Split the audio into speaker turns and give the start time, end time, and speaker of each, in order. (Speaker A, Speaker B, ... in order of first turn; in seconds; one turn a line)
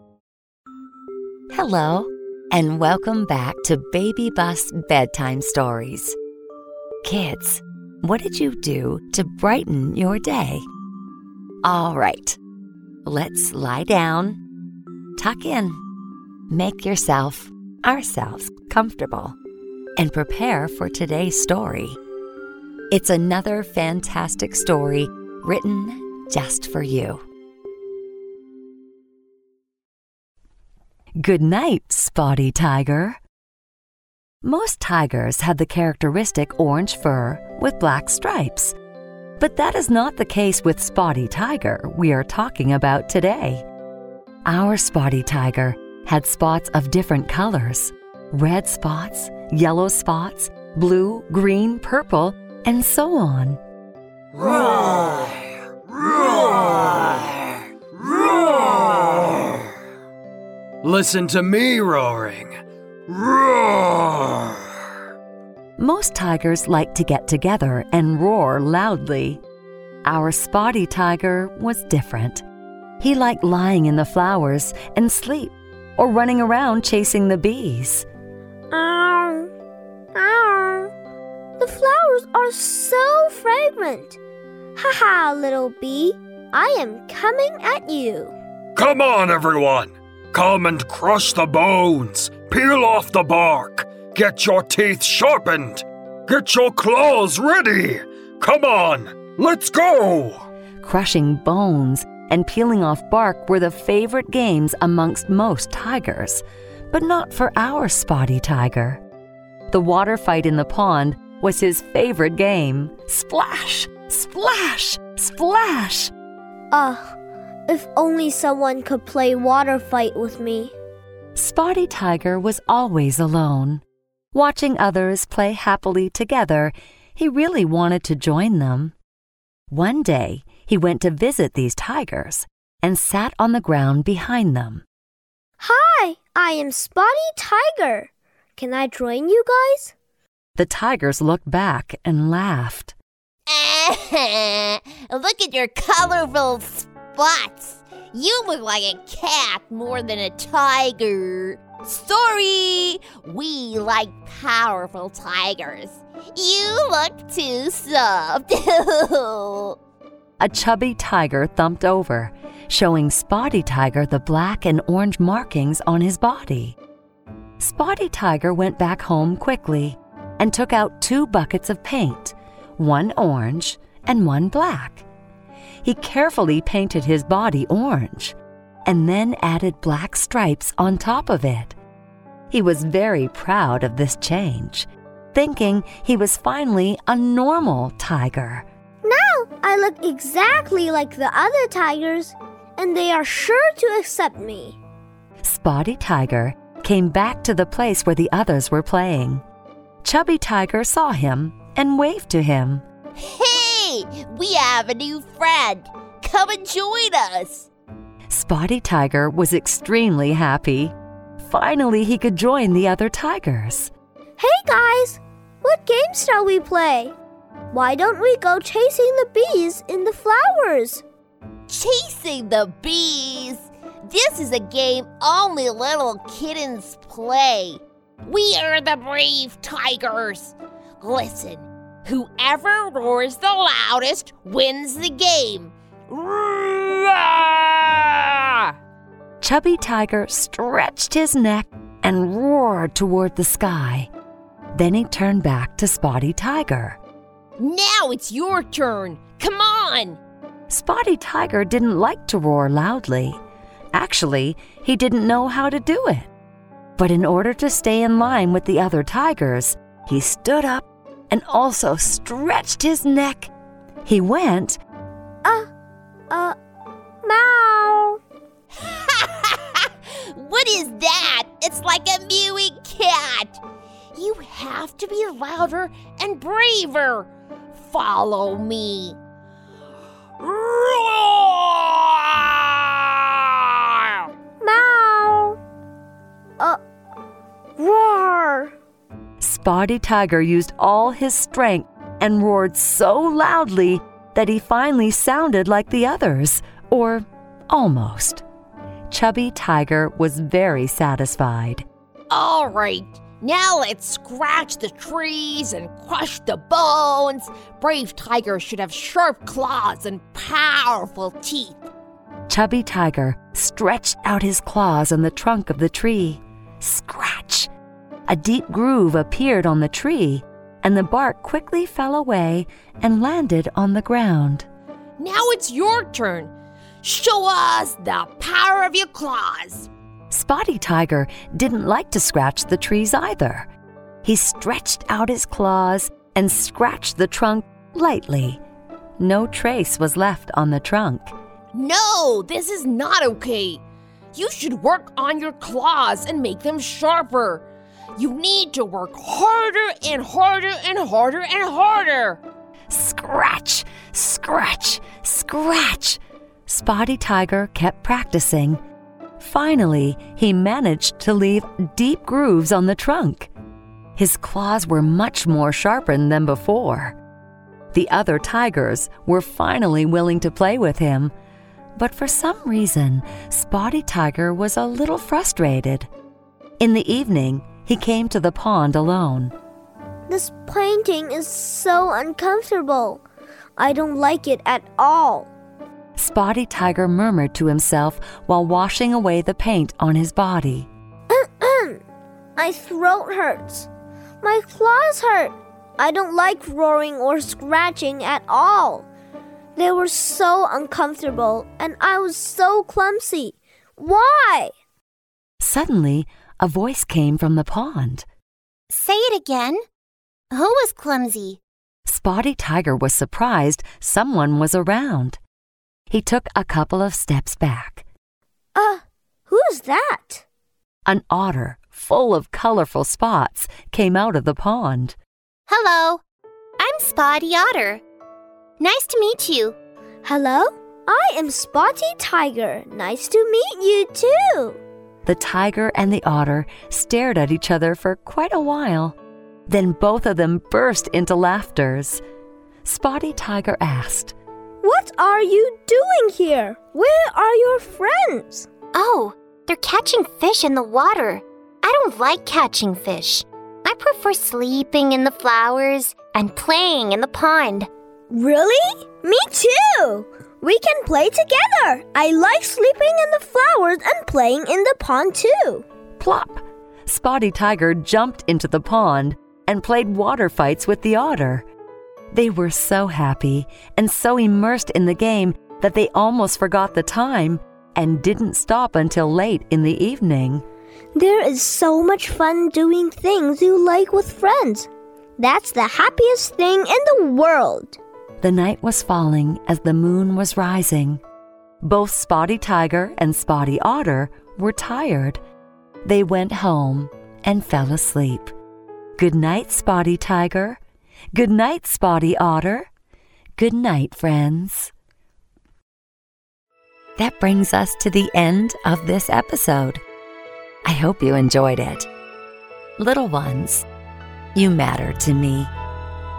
Speaker A: 1.5-6.2
Speaker A: 7.0-10.7
Speaker A: 11.6-12.4
Speaker A: 13.1-14.4
Speaker A: 15.2-15.8
Speaker A: 16.5-19.4
Speaker A: 20.0-22.0
Speaker A: 22.9-27.2
Speaker A: 31.2-33.2
Speaker A: 34.4-38.7
Speaker A: 39.4-43.6
Speaker A: 44.5-53.6
Speaker B: 54.4-55.3
Speaker B: 56.0-57.2
Speaker B: 58.0-59.6
Speaker B: 60.8-64.5
Speaker A: 65.8-69.4
Speaker A: 70.0-72.5
Speaker A: 73.0-78.1
Speaker C: 78.7-79.5
Speaker C: 80.2-80.9
Speaker C: 81.6-84.2
Speaker C: 84.8-88.3
Speaker B: 88.8-100.5
Speaker A: 100.8-109.0
Speaker A: 109.7-116.1
Speaker C: 116.7-117.2
Speaker C: 117.7-120.7
Speaker A: 121.4-128.9
Speaker A: 129.7-134.8
Speaker C: 135.6-139.9
Speaker A: 140.6-142.9
Speaker D: 143.5-159.8
Speaker A: 160.4-166.8
Speaker A: 167.6-175.1
Speaker A: 175.8-181.8
Speaker A: 182.5-188.7
Speaker C: 189.0-194.8
Speaker A: 195.4-199.4
Speaker A: 200.0-202.8
Speaker D: 203.2-207.7
Speaker A: 208.3-213.9
Speaker C: 214.4-217.1
Speaker C: 217.7-221.0
Speaker D: 221.7-238.4
Speaker A: 239.4-244.1
Speaker A: 244.7-247.0
Speaker D: 247.6-250.2
Speaker A: 250.7-253.4
Speaker A: 253.9-256.3
Speaker A: 257.0-263.5
Speaker A: 264.1-264.8
Speaker C: 265.4-265.7
Speaker C: 266.3-266.6
Speaker C: 267.2-268.2
Speaker D: 268.9-269.8
Speaker D: 270.4-273.6
Speaker D: 274.2-279.2
Speaker D: 280.4-283.1
Speaker C: 284.6-285.6
Speaker C: 287.8-288.7
Speaker A: 289.4-298.4
Speaker A: 299.1-301.9
Speaker D: 302.3-311.8
Speaker A: 312.5-317.7
Speaker A: 318.3-324.7
Speaker D: 325.2-329.9
Speaker A: 330.3-333.7
Speaker A: 334.2-338.6
Speaker A: 339.2-341.3
Speaker D: 341.7-343.8
Speaker D: 344.3-347.6
Speaker D: 348.2-352.4
Speaker A: 352.9-358.8
Speaker A: 359.4-363.5
Speaker A: 364.2-367.2
Speaker A: 367.9-371.3
Speaker A: 372.0-376.1
Speaker A: 376.8-379.5
Speaker C: 380.3-383.2
Speaker C: 383.8-385.5
Speaker A: 386.2-390.9
Speaker C: 391.3-392.0
Speaker C: 392.6-393.9
Speaker C: 394.4-399.1
Speaker C: 399.8-404.7
Speaker A: 405.6-408.3
Speaker E: 408.9-409.8
Speaker E: 410.5-411.6
Speaker A: 412.1-415.4
Speaker A: 416.1-418.0
Speaker C: 418.8-420.4
Speaker A: 421.1-425.2
Speaker E: 425.7-426.2
Speaker E: 426.8-428.0
Speaker E: 428.8-429.8
Speaker C: 430.2-434.8
Speaker A: 435.3-439.2
Speaker A: 439.7-442.2
Speaker A: 442.9-444.4
Speaker C: 444.8-448.7
Speaker E: 448.9-457.9
Speaker C: 458.3-465.8
Speaker A: 466.2-471.7
Speaker A: 472.3-480.6
Speaker C: 481.1-488.0
Speaker A: 488.4-491.2
Speaker A: 491.8-495.4
Speaker A: 496.0-498.5
Speaker A: 499.2-500.8
Speaker A: 501.3-502.9
Speaker A: 503.6-504.9
Speaker A: 507.2-510.0
Speaker A: 510.9-512.1
Speaker A: 513.0-513.9
Speaker A: 514.5-515.7